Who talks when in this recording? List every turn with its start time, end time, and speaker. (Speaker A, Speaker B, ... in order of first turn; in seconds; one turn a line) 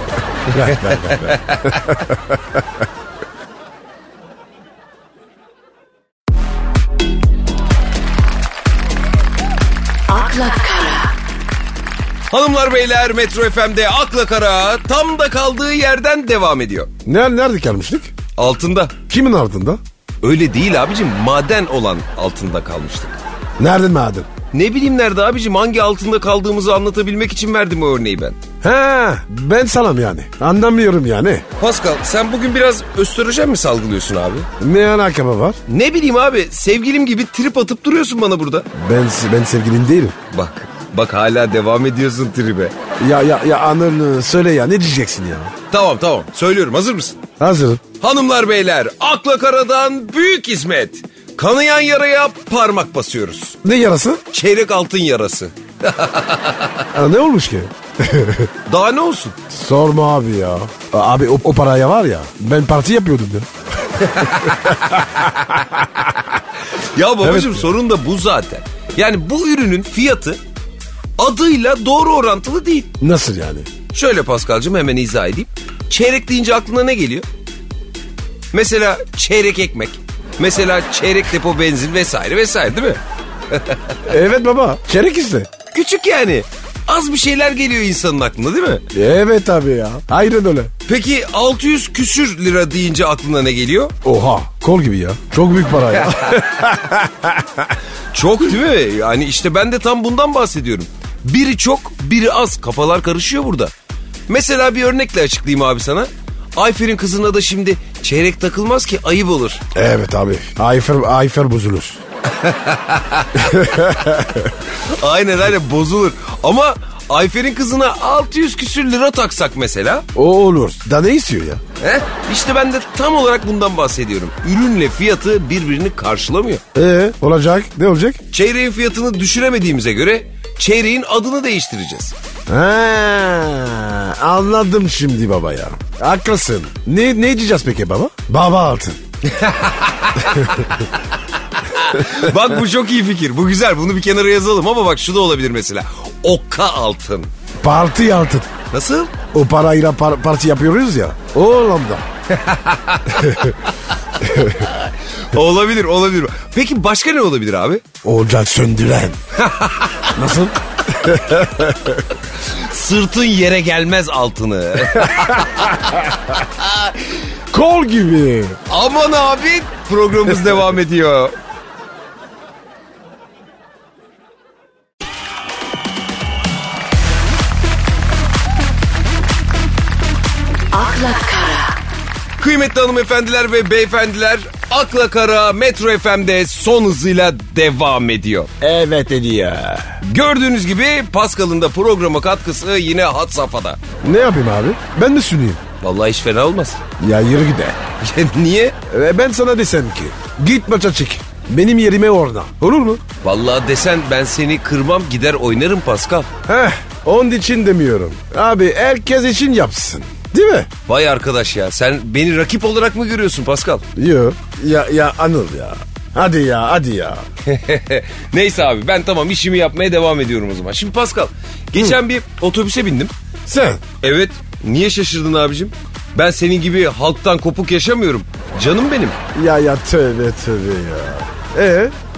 Speaker A: 0.5-2.0
Speaker B: 0.5-2.1
Speaker C: 10.1-11.2
Speaker A: 12.3-16.9
Speaker B: 17.1-18.1
Speaker A: 18.4-18.9
Speaker B: 19.1-19.8
Speaker A: 20.2-23.2
Speaker B: 23.6-24.3
Speaker A: 24.5-28.4
Speaker B: 28.6-31.4
Speaker A: 31.6-34.5
Speaker B: 34.6-35.6
Speaker A: 35.7-38.7
Speaker B: 38.7-40.2
Speaker A: 40.3-42.8
Speaker B: 43.0-45.5
Speaker A: 45.7-47.2
Speaker B: 47.4-47.8
Speaker A: 48.0-53.6
Speaker B: 53.6-54.2
Speaker A: 54.3-56.9
Speaker B: 56.9-58.5
Speaker A: 58.7-59.4
Speaker B: 59.5-63.5
Speaker A: 64.0-65.7
Speaker B: 64.0-65.2
Speaker A: 66.8-70.4
Speaker B: 67.2-67.7
Speaker A: 71.2-72.9
Speaker B: 73.0-73.7
Speaker A: 73.9-77.3
Speaker A: 78.5-84.0
Speaker B: 84.0-85.5
Speaker A: 85.7-88.8
Speaker B: 88.9-90.7
Speaker A: 90.9-93.9
Speaker B: 94.0-97.7
Speaker A: 96.0-96.5
Speaker A: 98.1-103.7
Speaker A: 104.3-109.6
Speaker B: 109.7-112.0
Speaker A: 112.3-114.2
Speaker B: 113.4-114.5
Speaker A: 114.7-120.0
Speaker B: 120.2-121.6
Speaker A: 121.8-126.6
Speaker B: 126.7-128.2
Speaker A: 128.3-132.2
Speaker B: 132.5-139.0
Speaker A: 139.2-147.3
Speaker B: 147.6-148.5
Speaker A: 148.7-149.1
Speaker B: 149.3-152.1
Speaker A: 152.3-153.5
Speaker B: 153.2-153.5
Speaker B: 154.2-154.6
Speaker A: 154.3-157.8
Speaker B: 158.0-159.2
Speaker A: 159.4-160.2
Speaker B: 160.1-162.1
Speaker A: 162.3-167.1
Speaker B: 165.1-165.6
Speaker B: 167.5-168.6
Speaker A: 168.7-171.3
Speaker C: 180.7-181.8
Speaker A: 182.4-188.5
Speaker B: 188.6-190.0
Speaker A: 190.0-193.8
Speaker B: 194.0-195.6
Speaker A: 195.8-196.8
Speaker B: 197.0-197.8
Speaker A: 198.0-198.8
Speaker B: 198.9-203.0
Speaker A: 203.2-206.3
Speaker B: 206.5-210.7
Speaker A: 210.9-213.8
Speaker B: 214.0-217.2
Speaker A: 217.4-223.1
Speaker B: 223.5-223.8
Speaker A: 224.0-229.2
Speaker B: 229.3-231.9